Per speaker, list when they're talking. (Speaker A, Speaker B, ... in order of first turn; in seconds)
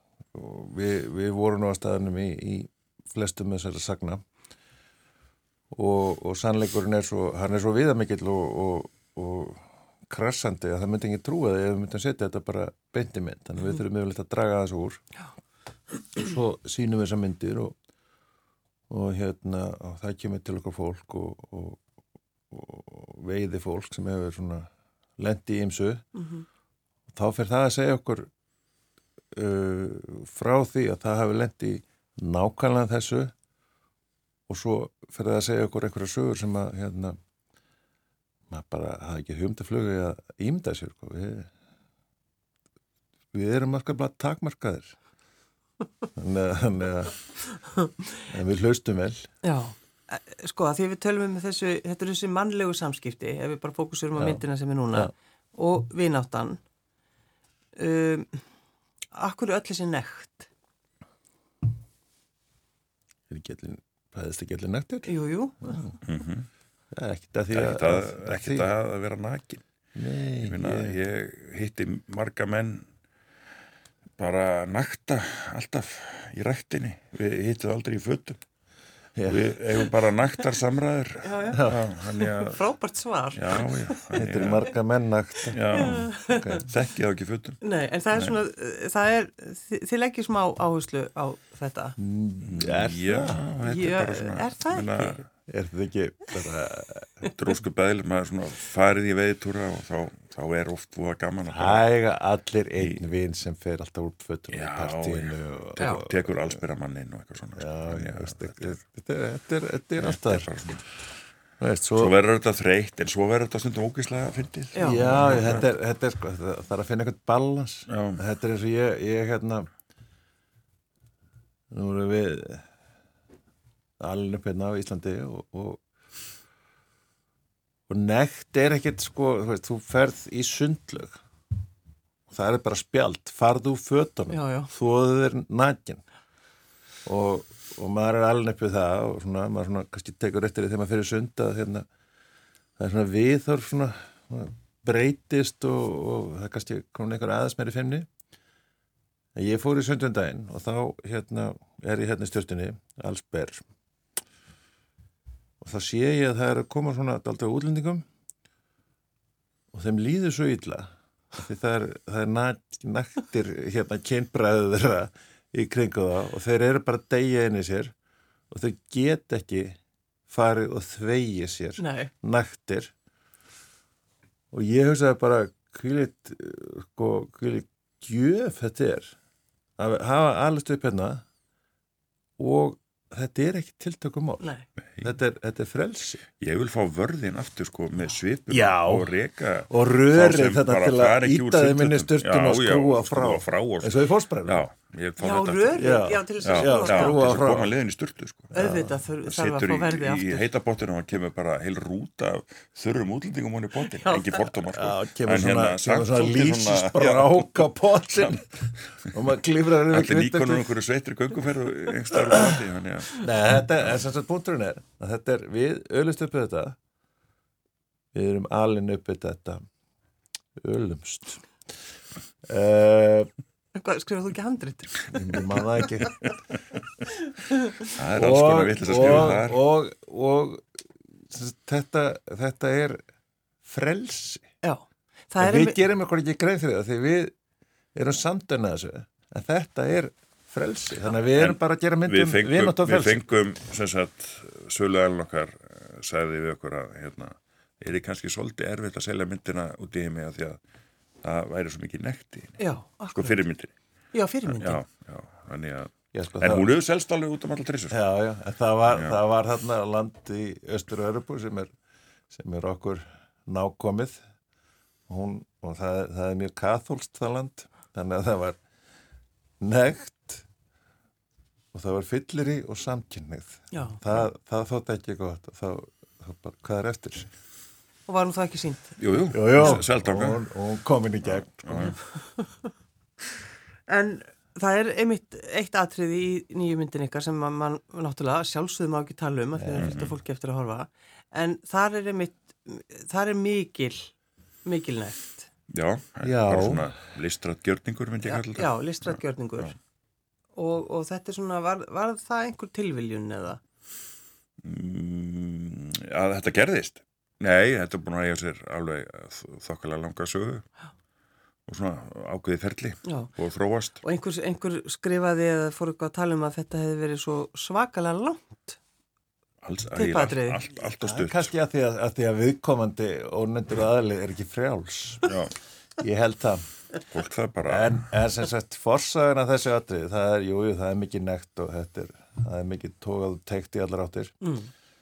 Speaker A: 0.3-4.2, 5.7-15.0, 16.2-17.8, 18.9-21.8, 22.5-26.1, 27.1-28.3, 29.3-33.3, 34.5-37.2, 38.5-41.5, 43.3-45.0, 46.2-47.2, 48.3-49.3, 54.2-55.1, 63.3-66.0, 66.9-68.7, 70.0-71.0, 79.2-79.4, 81.5-81.9, 84.2-86.7, 92.0-93.5, 95.5-97.3, 101.5-106.6, 107.6-110.8, 111.6-112.1, 114.8-119.7, 121.7-122.7, 124.0-125.8, 127.9-131.2, 132.3-136.0, 137.1-141.9, 142.8-148.1, 149.4-153.7, 155.6-158.1, 159.7-167.9, 168.5-169.8, 170.3-172.9, 174.5-179.2, 179.8-181.2, 182.4-186.2, 188.5-189.2, 189.7-194.7, 195.8-197.7, 198.6-199.0, 204.6-210.7, 212.2-212.6, 213.2-216.8, 218.1-219.6, 220.6-221.4, 222.4-223.3, 225.1-226.2, 228.1-233.0, 233.7-234.4, 235.4-237.3, 237.9-243.3, 256.1-256.7, 257.9-261.7, 262.3-264.2, 265.1-268.6, 269.6-270.5, 271.7-277.3, 279.3-282.0, 289.6-290.0, 296.2-296.9, 321.0-325.4, 326.0-326.6, 327.7-334.4
Speaker B: 26.1-26.4, 49.4-56.6, 57.8-58.4, 59.1-60.5, 65.1-66.0, 81.2-84.0, 85.7-86.6, 87.6-92.0, 93.6-95.2, 114.8-115.1, 134.3-134.7, 171.8-172.1, 184.4-184.7, 195.2-197.2, 198.5-200.5, 203.9-204.4, 223.8-226.1, 227.2-227.9, 234.6-235.8, 252.6-253.4, 254.1-254.8, 273.7-274.0, 278.1-279.0, 282.2-282.7, 283.9-294.1, 294.6-295.5, 298.2-299.8, 300.6-303.6, 313.1-313.3, 314.0-318.8, 319.9-320.6, 334.4-334.7
Speaker C: 66.0-66.5, 67.5-69.6, 70.4-72.9, 74.2-78.4, 79.3-82.6, 83.3-84.7, 85.5-87.6, 88.1-88.4, 92.4-95.3, 97.3-101.8, 104.5-108.8, 110.0-110.9, 112.0-115.7, 117.9-118.2, 186.4-198.5, 199.3-208.4, 209.9-213.3, 227.9-229.6, 241.3-250.6, 251.2-252.6, 253.1-253.7, 254.5-258.0, 258.9-259.2, 279.0-280.4, 281.2-282.0, 289.8-290.2, 295.7-299.7, 304.6-310.6, 311.7-314.0, 319.6-321.5, 325.3-325.5, 327.1-328.0